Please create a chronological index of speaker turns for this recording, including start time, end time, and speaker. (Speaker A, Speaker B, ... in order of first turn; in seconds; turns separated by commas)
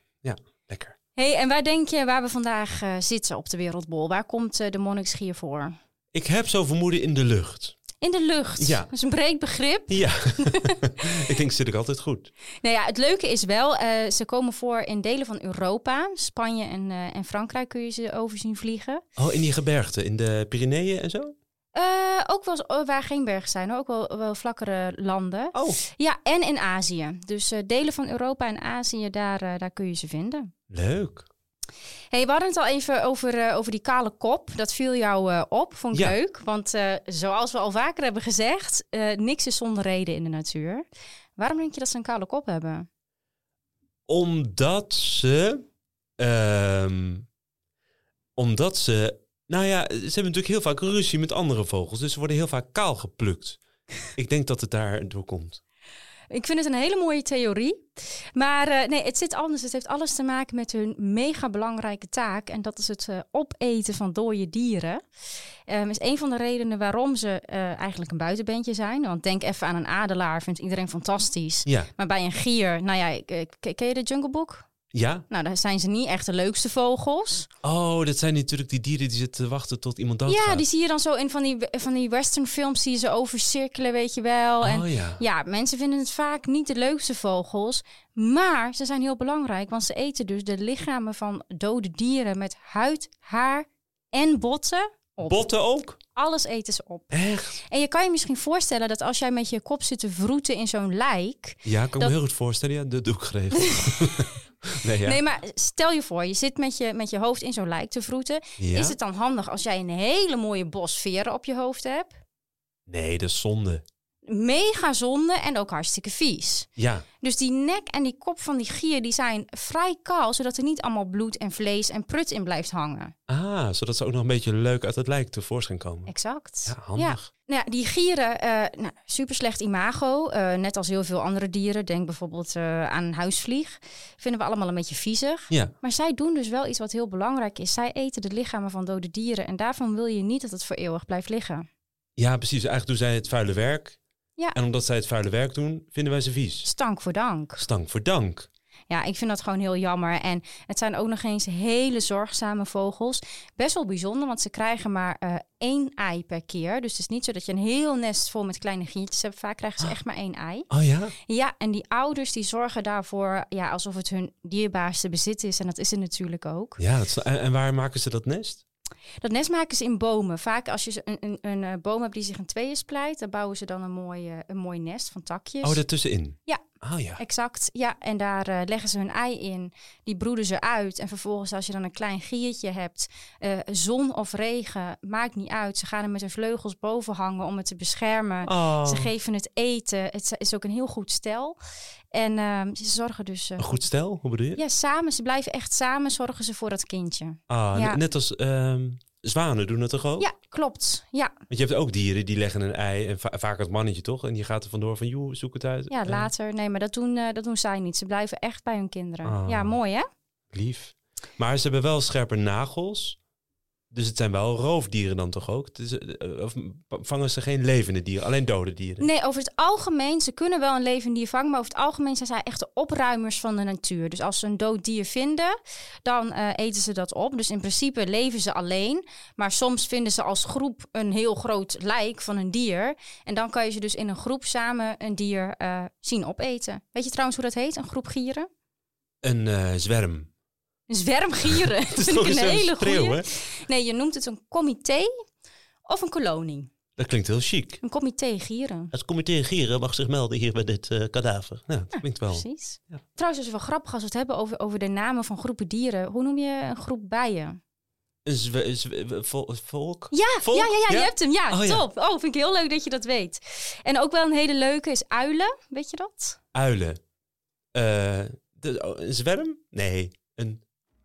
Speaker A: 0.2-0.9, Speaker B: 1.1-5.7, Speaker A: 6.1-7.8, Speaker B: 8.0-11.1, Speaker A: 8.6-8.9, Speaker A: 9.9-12.3, Speaker B: 12.6-19.0, Speaker A: 19.2-21.3, Speaker B: 21.7-30.5, Speaker A: 25.5-25.8, Speaker A: 30.7-31.3, Speaker B: 32.1-40.8, Speaker B: 41.4-42.9, Speaker A: 44.1-45.6, Speaker A: 46.2-47.2, Speaker A: 48.4-53.6, Speaker A: 54.1-55.6, Speaker B: 56.3-65.0, Speaker B: 65.7-74.6, Speaker A: 74.9-75.2, Speaker B: 75.3-77.5, Speaker A: 77.6-80.6, Speaker B: 80.3-95.4, Speaker A: 84.6-85.2, Speaker A: 95.2-96.0, Speaker B: 96.1-102.1, Speaker A: 97.1-97.6, Speaker A: 101.6-105.2, Speaker B: 103.6-104.3, Speaker B: 105.0-112.2, Speaker A: 108.6-109.0, Speaker A: 112.9-113.8, Speaker B: 114.2-116.7, Speaker A: 116.8-117.0, Speaker B: 117.2-123.1, Speaker A: 123.3-126.1, Speaker B: 126.1-141.7, Speaker A: 126.7-127.3, Speaker A: 142.2-144.0, Speaker A: 144.5-146.7, Speaker B: 146.6-147.6, Speaker A: 147.6-148.5, Speaker B: 148.9-160.7, Speaker A: 160.7-161.1, Speaker B: 161.2-166.8, Speaker A: 166.8-168.6, Speaker B: 169.2-175.8, Speaker A: 175.6-177.2, Speaker B: 177.2-191.6, Speaker A: 188.4-189.1, Speaker B: 192.1-193.8, Speaker A: 193.6-194.6, Speaker B: 194.6-198.0, Speaker A: 197.5-200.2, Speaker B: 200.2-201.3, Speaker A: 201.5-206.3, Speaker B: 205.9-210.1, Speaker A: 209.2-209.8, Speaker A: 210.5-213.2, Speaker A: 213.9-219.1, Speaker B: 219.0-238.5, Speaker A: 239.2-240.3, Speaker B: 240.9-245.1, Speaker A: 241.4-243.3, Speaker B: 245.8-246.7, Speaker A: 247.0-247.8, Speaker B: 247.8-248.9, Speaker A: 248.9-252.4, Speaker B: 251.9-257.6, Speaker A: 258.2-261.8, Speaker B: 260.1-266.4, Speaker A: 266.5-267.0, Speaker A: 267.7-270.6